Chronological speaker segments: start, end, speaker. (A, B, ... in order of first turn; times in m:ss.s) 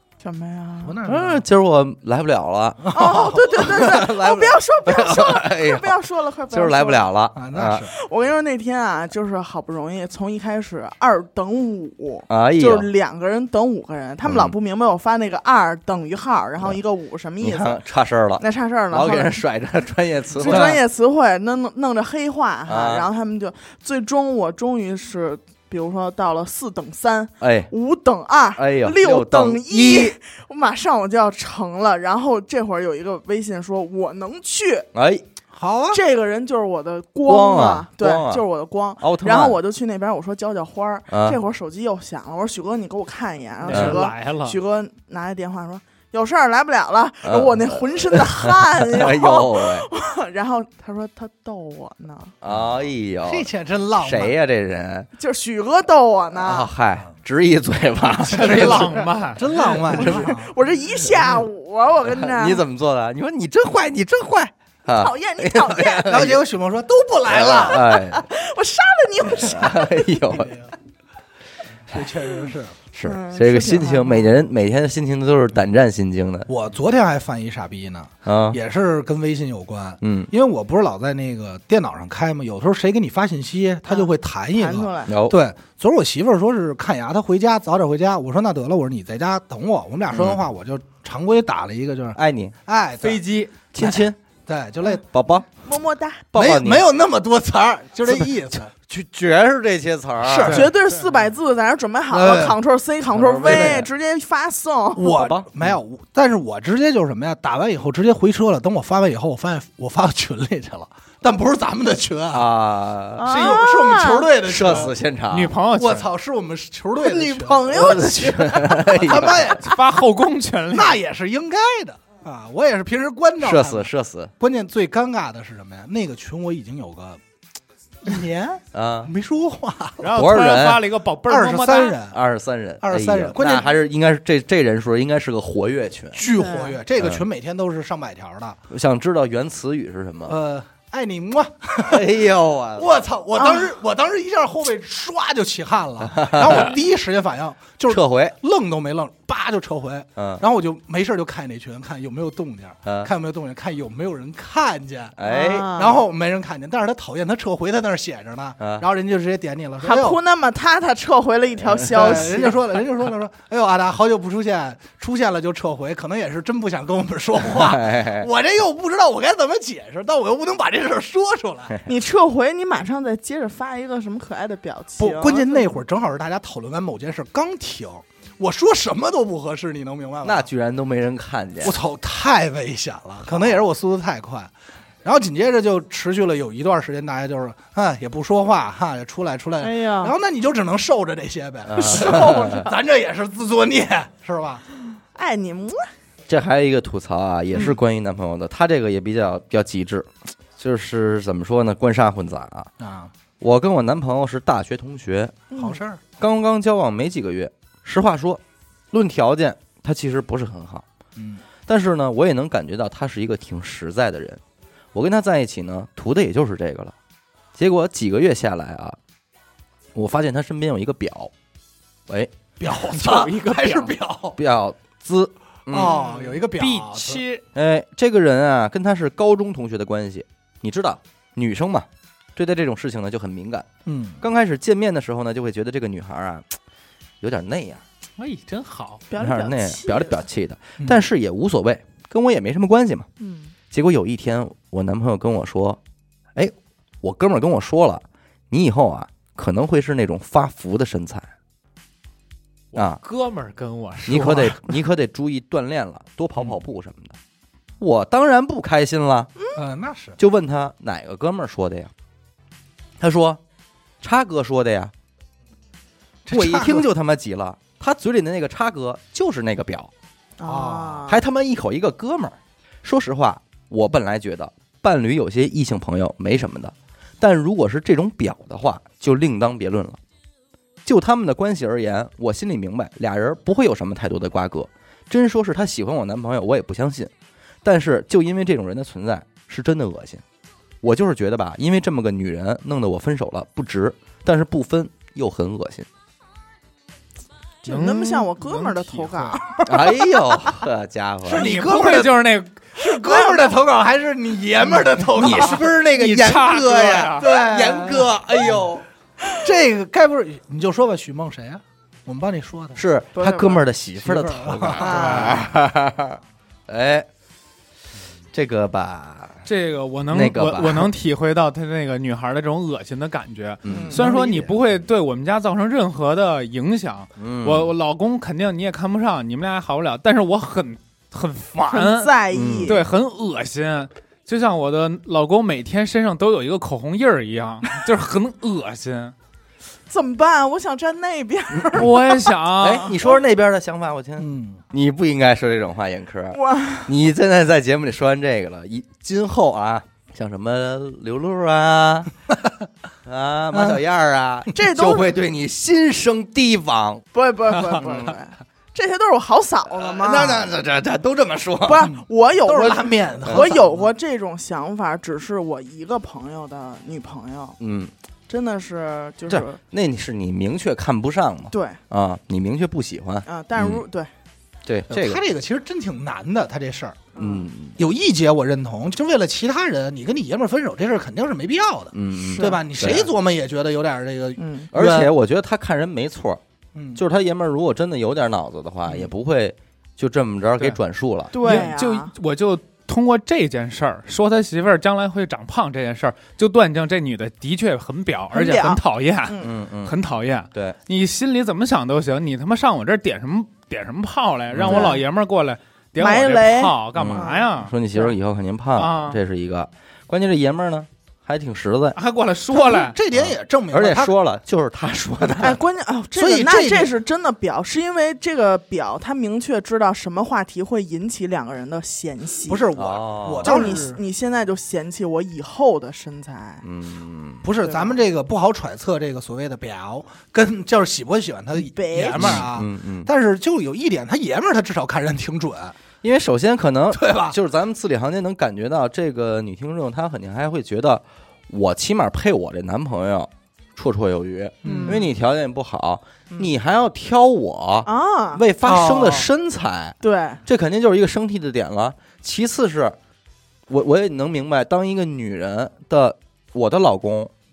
0:00.2-0:01.0 A
0:00.8-0:01.4 B
0:01.0-0:06.0 C
0:02.8-0:03.8 B
0:02.9-0:07.1 A
0:06.5-0:07.9 C
0:07.4-0:07.9 B
0:07.9-0:17.8 A
0:12.3-0:12.9 C
0:14.2-0:14.6 C
0:17.4-0:20.8 C
0:18.4-0:19.4 A
0:20.4-0:20.8 B
0:20.4-0:34.9 A
0:22.7-0:23.1 C
0:27.4-0:27.7 C
0:28.6-0:30.2 C
0:34.9-0:35.2 C
0:35.5-0:36.0 B
0:35.9-0:52.3 A
0:37.3-0:38.4 C
0:39.0-0:39.6 C
0:41.1-0:41.4 C
0:43.6-0:44.6 D
0:43.7-0:44.0 C
0:47.2-0:49.9 C
0:52.4-0:55.1 C
0:53.3-0:54.4 B
0:55.2-0:56.7 A
0:56.3-0:58.9 C
0:58.3-0:59.8 D
0:58.3-1:00.5 B
0:59.8-1:02.6 A
0:59.9-1:00.3 C
1:02.1-1:06.4 C
1:04.9-1:06.3 A
1:06.1-1:07.8 B
1:07.3-1:08.2 C
1:07.4-1:10.4 A
1:09.3-1:10.6 C
1:10.3-1:10.7 B
1:11.9-1:12.8 B
1:12.9-1:16.5 C
1:13.0-1:14.4 A
1:16.5-1:33.2 B
1:18.2-1:18.6 C
1:20.0-1:20.3 C
1:23.9-1:25.2 A
1:25.1-1:25.4 C
1:30.1-1:30.4 C
1:32.2-1:32.6 C
1:33.0-1:33.5 D
1:33.7-1:34.2 C
1:33.8-1:35.0 B
1:35.0-1:35.5 C
1:35.6-1:36.3 A
1:36.3-1:36.9 C
1:36.4-1:38.7 B
1:38.1-1:40.6 C
1:40.2-1:40.7 B
1:40.5-1:41.1 D
1:40.5-1:45.1 A
1:42.1-1:42.6 B
1:43.1-1:43.9 C
1:43.4-1:43.8 B
1:45.0-1:52.5 B
1:45.0-1:45.7 C
1:52.3-1:53.6 C
1:53.2-1:54.3 A
1:53.2-1:54.9 B
1:54.5-1:55.5 C
1:55.3-1:56.1 D
1:55.8-1:58.0 B
1:57.0-1:59.3 A
1:57.7-1:59.6 C
1:58.9-1:59.8 B
1:59.6-2:01.0 D
2:00.7-2:07.2 B
2:03.4-2:04.3 C
2:08.0-2:10.1 B
2:08.7-2:09.1 C
2:10.0-2:12.0 D
2:10.1-2:10.8 C
2:11.3-2:12.2 B
2:12.1-2:16.2 C
2:12.8-2:13.7 B
2:16.1-2:18.6 B
2:16.3-2:16.8 A
2:17.0-2:17.2 C
2:18.7-2:20.4 C
2:20.3-2:22.1 B
2:21.8-2:23.0 C
2:22.8-2:40.2 B
2:23.4-2:23.7 A
2:26.0-2:26.8 C
2:27.9-2:28.4 C
2:30.2-2:30.4 C
2:32.8-2:33.1 C
2:35.2-2:35.7 C
2:35.2-2:36.0 A
2:38.6-2:38.8 C
2:39.8-2:42.6 A
2:41.8-2:51.8 B
2:47.4-2:48.3 C
2:51.8-2:55.8 A
2:55.0-3:00.5 B
3:00.2-3:01.8 C
3:01.6-3:04.5 B
3:03.3-3:03.6 C
3:05.0-3:14.6 B
3:09.6-3:10.1 A
3:11.7-3:12.6 C
3:11.8-3:12.8 A
3:15.2-3:15.9 A
3:16.3-3:22.7 C
3:22.8-3:23.1 B
3:23.4-3:25.4 C
3:25.5-3:25.8 A
3:25.6-3:26.0 B
3:26.2-3:30.8 C
3:31.2-3:31.4 B
3:31.7-3:34.4 C
3:34.9-3:36.9 C
3:37.6-3:39.0 C
3:40.0-3:41.3 C
3:42.1-3:42.3 C
3:42.6-3:44.4 B
3:42.7-3:44.0 D
3:44.4-3:46.0 C
3:45.7-3:47.2 B
3:45.8-3:46.4 A
3:46.5-3:47.4 D
3:47.5-3:53.7 C
3:53.9-3:54.2 B
3:54.2-3:56.5 C
3:57.2-3:57.8 C
3:58.2-3:59.0 D
3:59.1-4:00.2 A
3:59.2-4:03.1 C
4:03.2-4:03.5 A
4:03.7-4:05.8 C
4:06.4-4:11.3 C
4:12.7-4:14.7 D
4:12.8-4:13.0 C
4:14.1-4:17.2 C
4:17.8-4:19.3 C
4:19.6-4:20.2 B
4:20.2-4:21.9 C
4:23.0-4:23.4 C
4:24.0-4:24.9 C
4:26.3-4:26.9 B
4:26.3-4:29.9 C
4:30.4-4:31.2 A
4:30.5-4:31.0 B
4:31.1-4:40.0 C
4:40.8-4:47.1 C
4:47.6-4:50.2 C
4:50.8-4:55.9 C
4:57.6-5:00.6 A
4:57.7-4:59.4 D
4:59.6-5:01.5 C
5:01.2-5:02.2 B
5:01.3-5:02.7 D
5:02.8-5:08.1 B
5:03.0-5:03.6 A
5:05.2-5:08.8 C
5:05.2-5:07.4 D
5:09.3-5:12.8 B
5:12.8-5:17.1 C
5:13.2-5:13.6 A
5:14.0-5:15.4 B
5:14.8-5:15.4 A
5:14.8-5:15.4 D
5:18.3-5:19.4 C
5:19.4-5:32.1 D
5:20.1-5:20.9 C
5:23.6-5:24.2 C
5:23.7-5:24.0 A
5:24.0-5:24.5 B
5:27.2-5:27.7 C
5:31.7-5:32.8 A
5:32.3-5:32.8 C
5:32.6-5:39.1 D
5:39.9-5:42.2 A
5:41.7-5:43.0 D
5:42.6-5:52.1 C
5:44.2-5:44.6 B
5:46.3-5:46.9 A
5:53.1-5:57.0 C
5:54.5-5:55.1 A
5:57.1-6:00.5 A
5:57.7-5:58.2 C
5:59.7-6:01.9 C
6:01.6-6:07.6 A
6:01.8-6:03.9 B
6:03.2-6:03.5 C
6:07.6-6:07.9 C
6:08.3-6:09.6 A
6:09.3-6:13.8 C
6:11.5-6:11.8 A
6:13.3-6:14.1 A
6:14.7-6:15.2 C
6:14.9-6:17.1 B
6:17.2-6:17.5 A
6:17.2-6:17.8 C
6:17.8-6:25.1 B
6:21.9-6:23.1 C
6:22.2-6:22.6 A
6:24.4-6:24.7 A
6:24.7-6:26.4 C
6:26.7-6:27.0 B
6:27.0-6:31.7 C
6:31.3-6:32.1 A
6:31.4-6:47.7 D
6:38.3-6:39.5 A
6:39.4-6:40.0 C
6:44.5-6:45.0 C
6:44.6-6:45.0 A
6:46.0-6:48.1 A
6:47.0-6:52.0 C
6:48.8-6:49.2 D
6:52.0-6:53.0 D
6:52.5-6:54.1 B
6:53.1-6:55.6 C
6:55.4-7:02.7 A
6:56.2-6:57.0 B
7:02.5-7:04.0 B
7:02.8-7:03.6 C
7:03.4-7:06.6 A
7:06.6-7:07.5 C
7:07.4-7:15.8 B
7:07.6-7:08.0 A
7:11.6-7:12.5 A
7:12.2-7:13.1 C
7:16.0-7:33.0 C
7:16.9-7:17.4 B
7:24.6-7:25.0 B
7:24.6-7:25.1 A
7:27.9-7:28.4 A
7:28.6-7:29.3 B
7:30.0-7:30.4 A
7:33.7-7:37.3 C